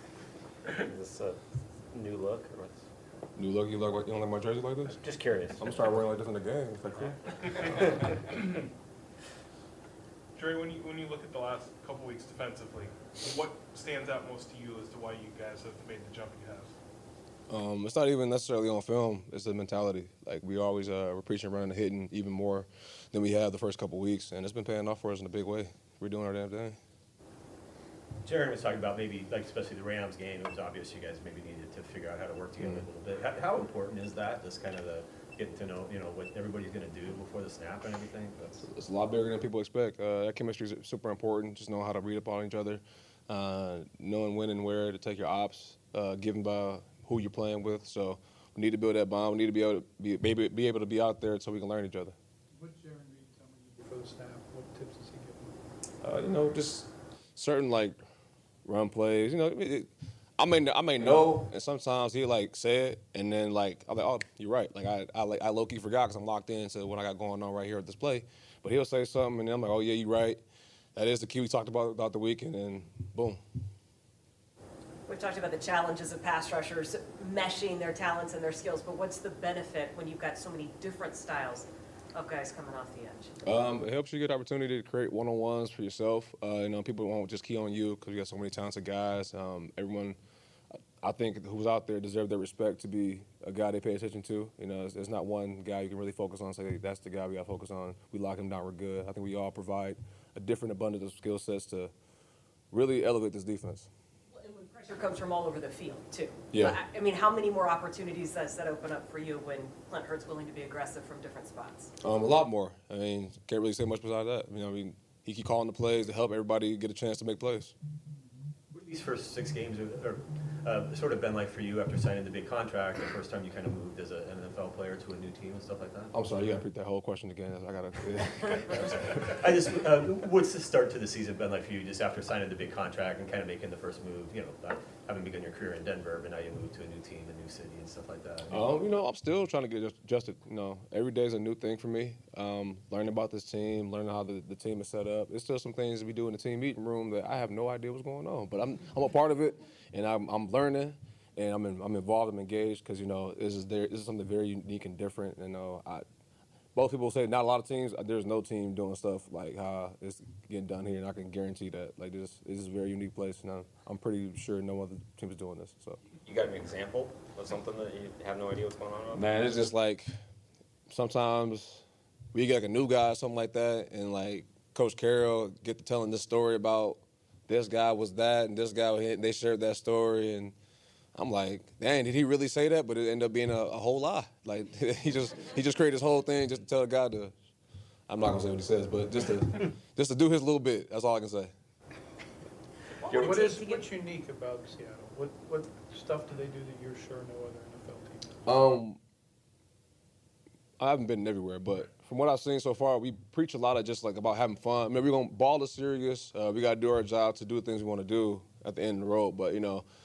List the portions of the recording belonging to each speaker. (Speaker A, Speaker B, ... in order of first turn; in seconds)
Speaker A: 0.8-1.4, 1.9-2.8, 4.9-5.9, 166.2-169.2
Speaker B: 3.4-5.0, 5.5-7.2, 17.5-26.8, 38.6-52.1, 56.0-58.0, 58.6-70.4, 71.0-73.4, 83.4-90.2, 91.0-101.9, 102.7-103.9, 106.5-106.8, 112.0-117.8, 126.1-129.4, 138.5-156.1, 156.8-166.0, 169.1-170.1, 170.9-180.6, 181.2-187.3, 188.1-191.5, 198.4-199.0, 200.8-209.8
Speaker C: 10.4-16.8
Speaker D: 28.2-38.6, 118.7-126.1, 129.2-138.7
Speaker E: 52.5-55.6, 193.0-198.6
Speaker F: 75.1-83.4, 104.3-111.9, 193.1-193.8